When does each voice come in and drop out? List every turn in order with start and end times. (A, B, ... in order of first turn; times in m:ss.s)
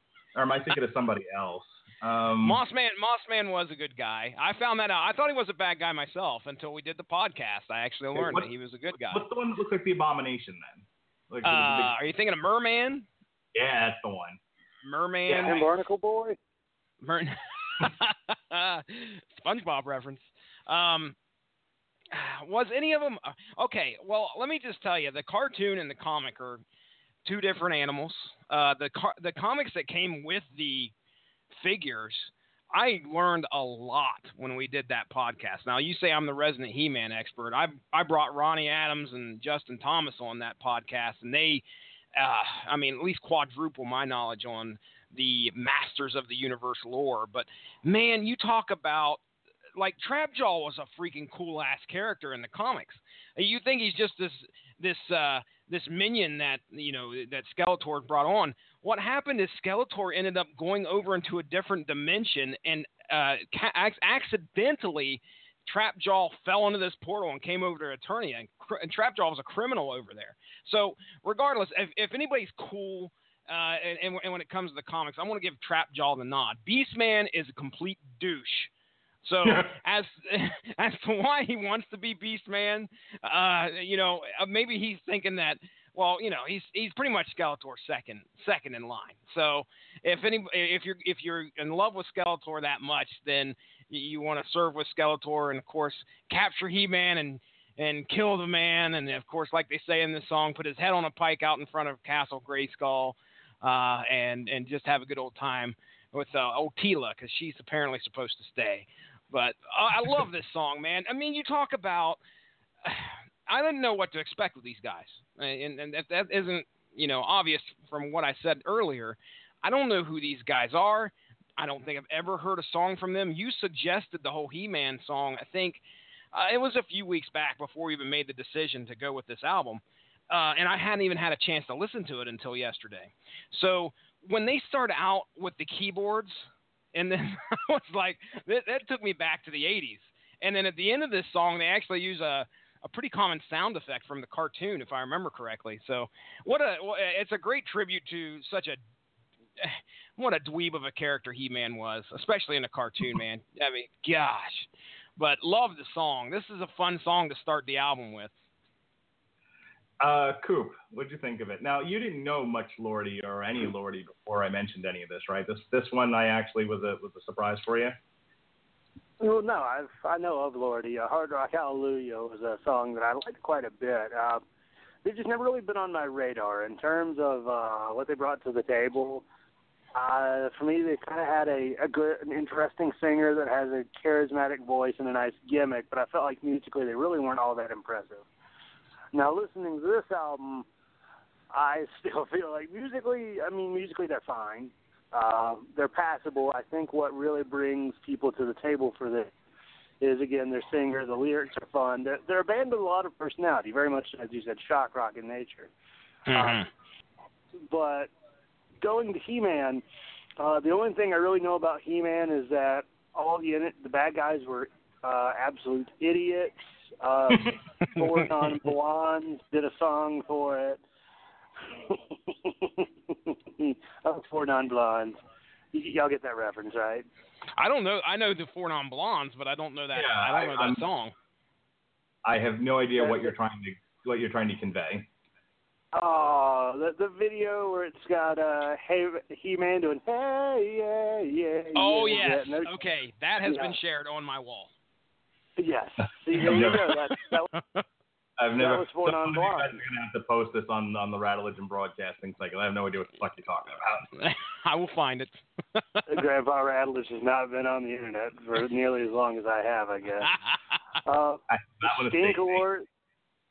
0:00.3-0:02.6 A
0:02.4-0:09.2 B
0:08.1-0:08.5 A
0:09.1-0:11.9 A
0:11.4-0:13.0 B
0:13.5-0:14.4 A
0:14.8-0:15.7 B
0:15.3-0:15.6 A
0:15.3-0:16.4 C
0:17.0-0:21.1 B
0:22.1-0:26.6 B
0:27.2-0:30.9 B
0:31.5-0:41.6 B
0:42.1-0:49.2 B
0:49.8-1:18.7 B
1:19.2-1:52.2 B
1:19.4-1:19.7 A
1:52.8-2:05.8 B
2:06.3-2:28.8 B
2:29.6-2:38.3 B
2:40.0-2:48.0 A
2:49.2-2:54.4 C
2:55.0-2:59.2 C
2:59.9-3:08.2 C
3:09.1-3:10.7 C
3:11.5-3:19.3 C
3:20.0-3:25.7 C
3:26.3-3:26.7 B
3:26.3-3:26.6 C
3:27.7-3:28.1 C
3:28.8-3:29.8 C
3:30.4-3:40.8 C
3:41.7-3:45.2 C
3:45.7-3:47.1 C
3:47.6-3:51.1 B
3:49.9-3:50.8 A
3:52.2-3:55.1 A
3:53.0-3:53.3 C
3:55.9-4:02.7 C
4:01.7-4:04.7 B
4:03.4-4:03.8 C
4:05.6-4:07.5 C
4:06.3-4:07.0 A
4:06.4-4:06.9 B
4:07.5-4:07.8 B
4:08.4-4:14.1 A
4:08.6-4:09.8 C
4:14.2-4:16.1 B
4:16.1-4:20.3 C
4:20.2-4:20.8 B
4:21.0-4:22.8 C
4:21.5-4:22.6 A